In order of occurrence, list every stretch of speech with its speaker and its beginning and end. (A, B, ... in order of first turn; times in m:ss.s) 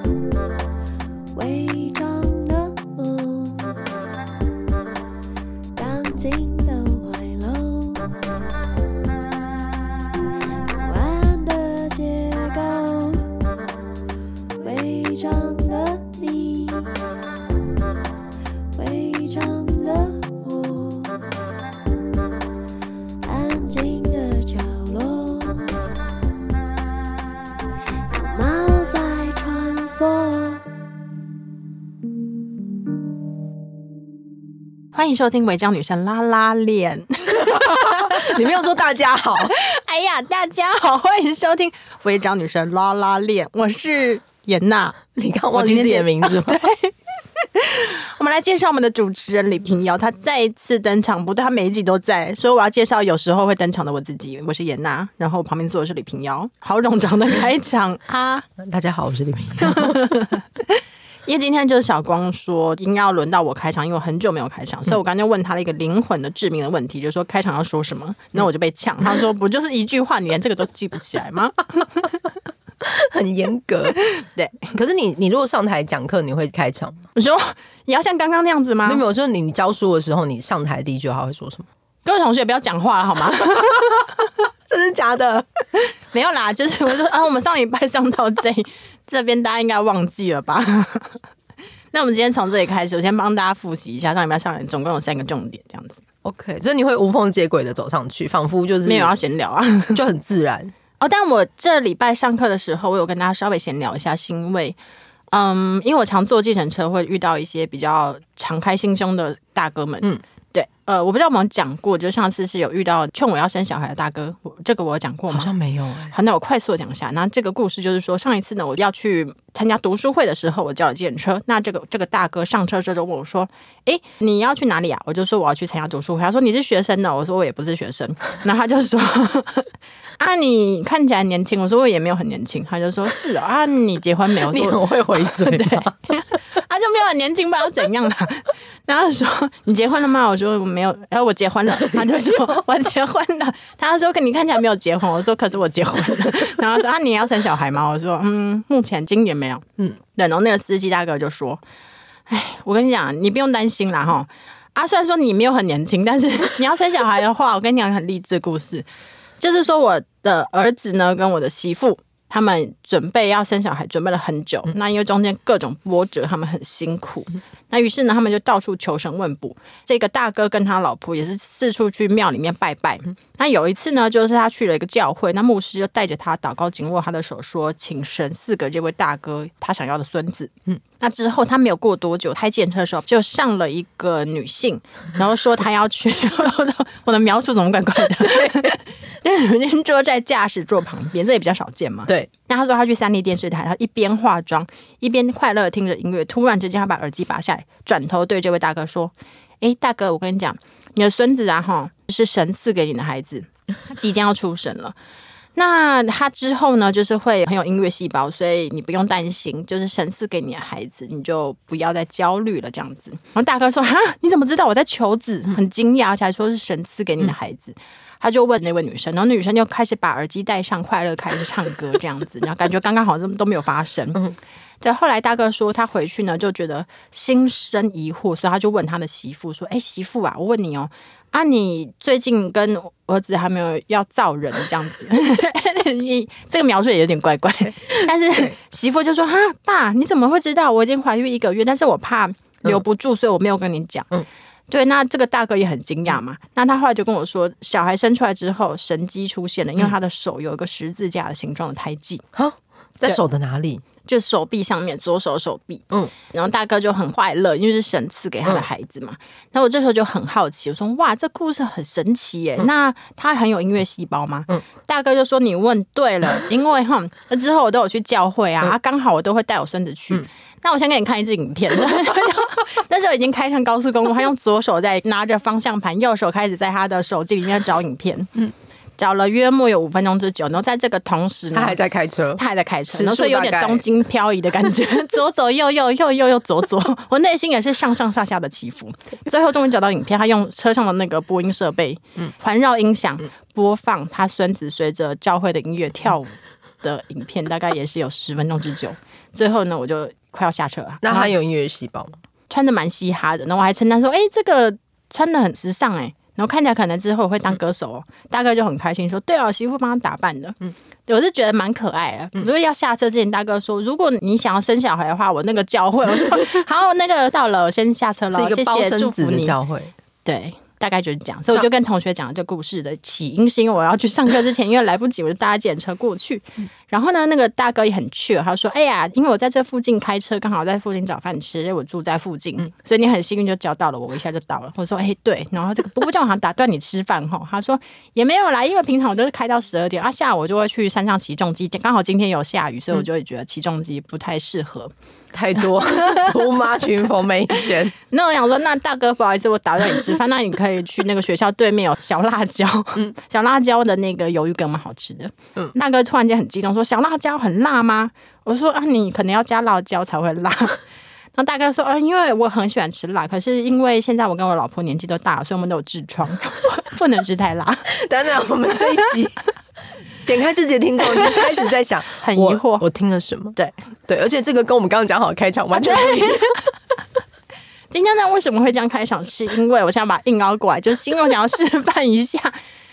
0:01.3-0:03.8 A
0:05.8-0:08.1 A
0:10.7-0:13.3 A
0:14.6-0:16.9 A
0:18.8-0:21.2 A
0:23.2-0:25.6 A
0:28.1-0:30.6 A
0:34.9-0:38.5 B
0:37.3-0:39.6 C
0:39.4-0:45.0 B
0:45.2-0:46.6 C
0:45.5-0:46.9 B
0:47.6-0:58.5 B
0:58.6-1:00.2 C
0:59.6-1:12.2 B
1:12.8-1:14.0 C
1:14.2-1:14.7 B
1:14.7-1:17.0 C
1:17.2-1:19.0 B
1:18.9-1:21.7 C
1:22.0-1:24.1 B
1:23.6-1:23.9 C
1:24.7-1:25.5 C
1:25.8-1:31.2 B
1:31.9-1:36.0 B
1:36.2-1:39.1 C
1:38.9-1:40.0 B
1:39.9-1:40.7 C
1:41.0-1:44.8 B
1:45.3-1:55.5 B
1:55.3-1:56.1 C
1:56.1-2:31.6 B
2:14.5-2:16.1 C
2:32.3-2:38.9 B
2:39.4-3:25.0 B
3:08.3-3:08.7 C
3:25.6-3:44.3 B
3:44.8-4:04.1 B
3:58.3-3:58.6 C
4:04.7-4:12.2 B
4:12.3-4:13.8 C
4:14.0-4:38.3 B
4:39.0-4:41.8 B
4:41.5-4:43.8 C
4:42.4-5:01.3 B
5:01.0-5:02.2 C
5:02.5-5:19.6 B
5:18.3-5:19.9 C
5:20.2-5:44.9 B
5:45.3-5:48.0 C
5:46.0-5:46.3 B
5:48.0-6:00.8 B
6:01.4-6:07.9 B
6:07.9-6:09.4 C
6:10.2-6:16.5 C
6:12.2-6:12.9 B
6:15.7-6:16.6 B
6:17.9-6:22.6 B